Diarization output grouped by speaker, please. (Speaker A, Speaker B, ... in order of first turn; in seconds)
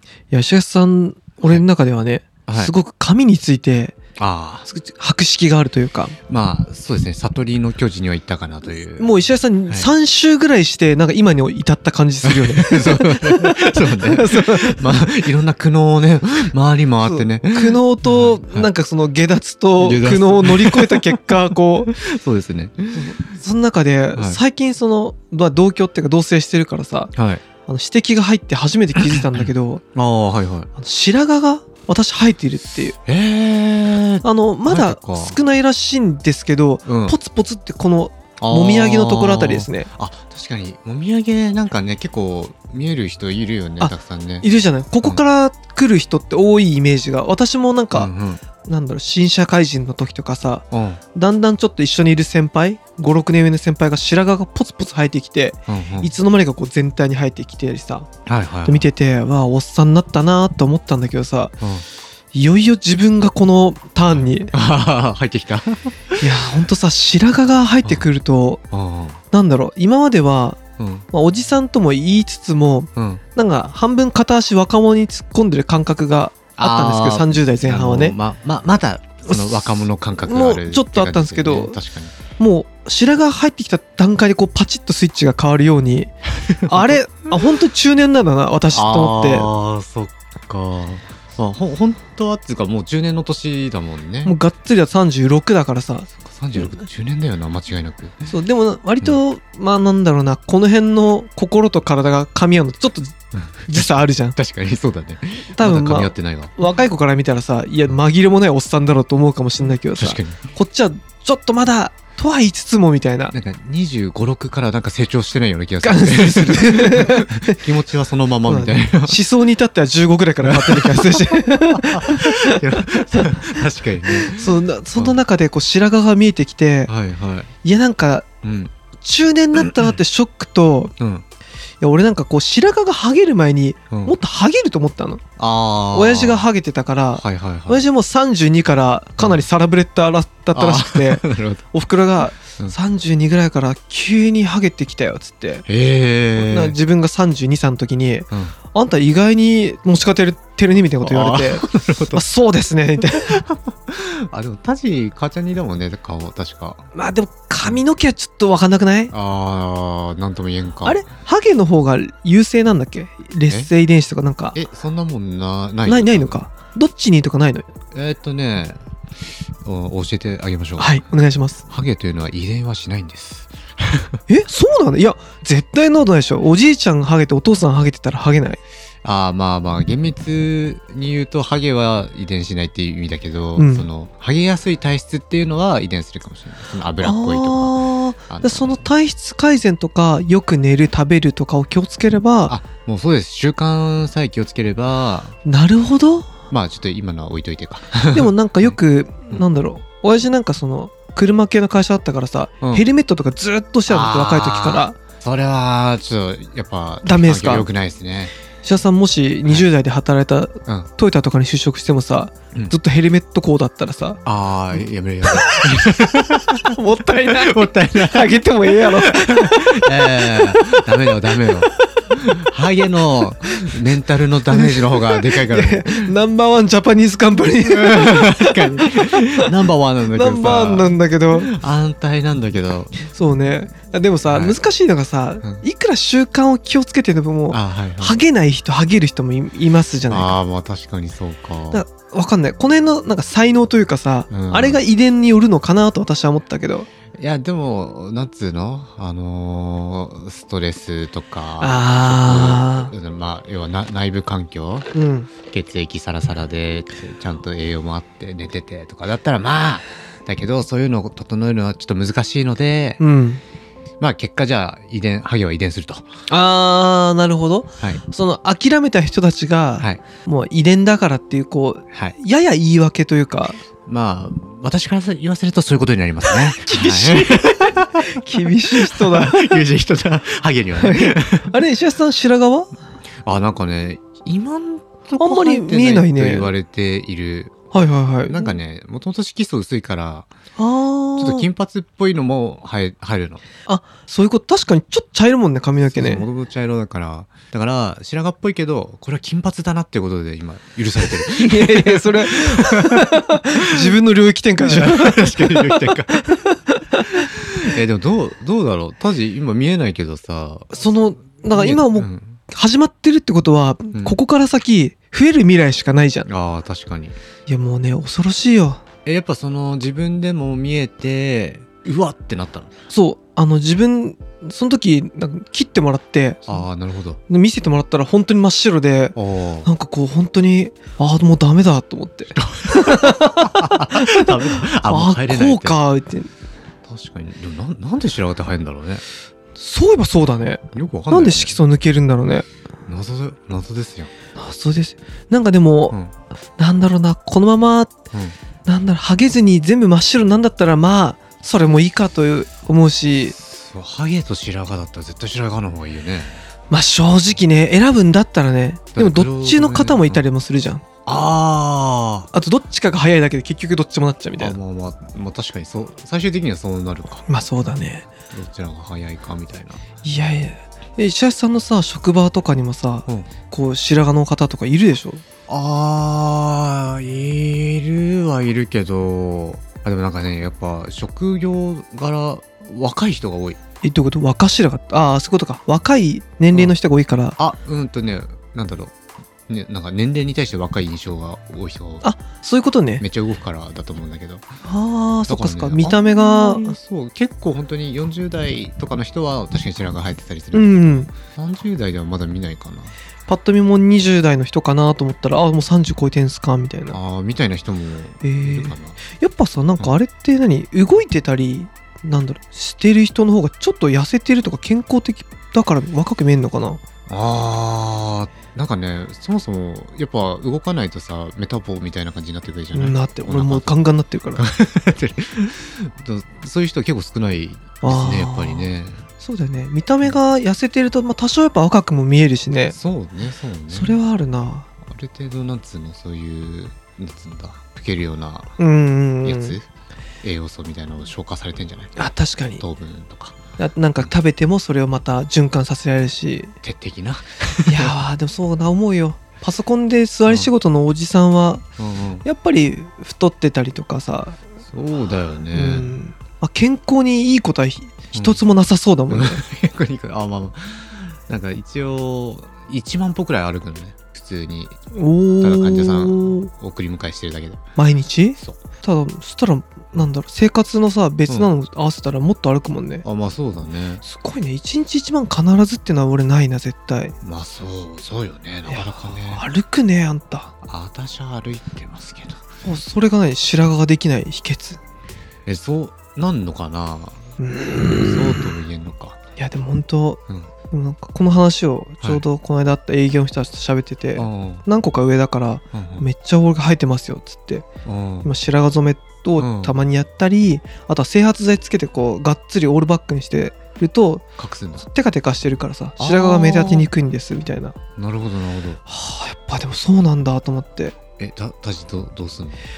Speaker A: 0.3-4.0, 4.7-6.2, 9.0-14.8, 17.0-21.9, 23.0-27.1, 27.7-29.8, 30.8-33.0, 34.2-39.9, 43.8-48.1, 48.6-58.1, 58.7-61.5, 62.3-64.5, 66.2-68.6, 69.3-70.6, 71.1-78.2, 79.3-81.8, 82.4-86.1, 86.7-89.5, 94.2-96.1, 98.3-103.2, 103.7-104.3, 105.5-113.3, 115.8-117.6, 118.5-123.3, 124.1-126.9, 127.6-128.3, 129.0-130.9, 131.8-135.2, 135.9-145.7, 146.3-153.3, 156.9-159.1, 160.8-164.6, 165.9-167.7, 170.8-171.6, 174.3-178.6, 183.6-183.9, 187.0-192.6, 195.4-196.3, 198.1-205.0, 207.0-207.7, 208.6-214.2, 214.8-215.7, 216.7-220.5, 224.5-229.5, 230.1-231.5, 233.1-240.3, 241.7-246.9, 251.6-252.9, 254.9-255.3, 263.0-263.4, 266.3-273.6, 276.3-279.6, 280.8-282.7, 285.2-286.5, 287.7-288.6, 290.6-291.5, 293.7-296.3, 301.3-307.3, 310.7-316.3, 317.5-318.8, 322.9-326.6, 327.3-336.3, 339.6-342.5, 344.4-346.0, 346.6-347.9, 348.6-353.3, 356.7-360.8, 362.3-364.6, 367.3-368.1, 370.0-375.2, 383.8-387.4, 392.0-393.0, 394.6-396.7, 400.5-401.1, 403.3-407.0, 408.2-416.8, 422.7-424.4, 427.8-428.7, 429.2-432.8, 433.7-434.7, 438.6-439.6, 442.0-442.6, 443.6-446.5, 447.7-451.6, 452.2-454.4, 455.5-459.4, 464.9-466.5, 467.8-473.0, 474.0-477.1, 478.7-480.5, 482.6-484.8, 487.4-488.6, 489.4-490.2, 490.7-497.7, 498.2-504.2, 504.8-507.8, 508.9-511.0
Speaker B: 2.5-2.7, 4.2-4.7, 6.3-9.9, 12.2-18.7, 19.8-23.2, 24.1-24.4, 27.1-27.4, 29.0-30.7, 33.1-35.4, 36.9-37.2, 38.4-44.5, 47.9-48.4, 50.7-51.0, 55.7-56.1, 58.3-58.9, 61.6-61.9, 64.5-66.6, 68.7-69.2, 70.8-71.1, 73.0-73.2, 76.6-82.2, 86.5-87.0, 88.7-94.3, 96.2-98.2, 103.4-106.5, 109.9-110.4, 113.3-119.2, 120.4-125.2, 126.9-127.5, 128.4-128.7, 129.6-130.0, 131.0-131.2, 135.4-136.5, 137.2-137.8, 139.2-139.4, 140.5-141.6, 145.7-146.8, 151.0-152.2, 153.1-156.9, 159.1-161.0, 164.5-166.4, 167.9-168.8, 169.6-171.0, 171.7-174.2, 179.0-188.8, 192.5-195.4, 196.5-198.8, 202.6-202.9, 203.9-208.3, 214.2-226.1, 227.6-233.1, 234.3-234.6, 237.5-238.2, 240.1-241.8, 244.3-244.8, 247.2-254.9, 255.4-263.0, 264.0-266.1, 273.9-281.6, 283.2-287.7, 288.3-290.3, 291.2-293.4, 295.9-304.0, 304.6-306.2, 307.1-310.9, 311.5-312.4, 313.9-314.2, 316.3-317.2, 319.1-322.7, 326.5-327.2, 329.2-329.7, 332.4-335.8, 336.9-339.0, 340.7-341.6, 342.9-344.1, 353.3-356.4, 358.9-360.2, 361.1-362.3, 364.4-367.2, 368.3-369.8, 375.5-383.6, 387.4-388.9, 389.5-392.1, 393.0-394.4, 395.3-402.9, 406.9-409.0, 417.1-423.8, 424.4-429.0, 432.6-434.0, 434.9-438.6, 439.2-439.6, 440.2-442.0, 442.6-443.4, 446.6-447.9, 451.8-452.2, 454.7-455.9, 458.1-458.4, 459.1-464.8, 465.4-467.6, 473.0-474.0, 477.2-479.4, 480.6-482.4, 485.5-489.2, 494.2-494.7, 495.7-496.1, 497.9-498.3, 499.4-499.8, 504.4-504.9, 506.0-506.9, 508.0-508.8, 511.2-512.6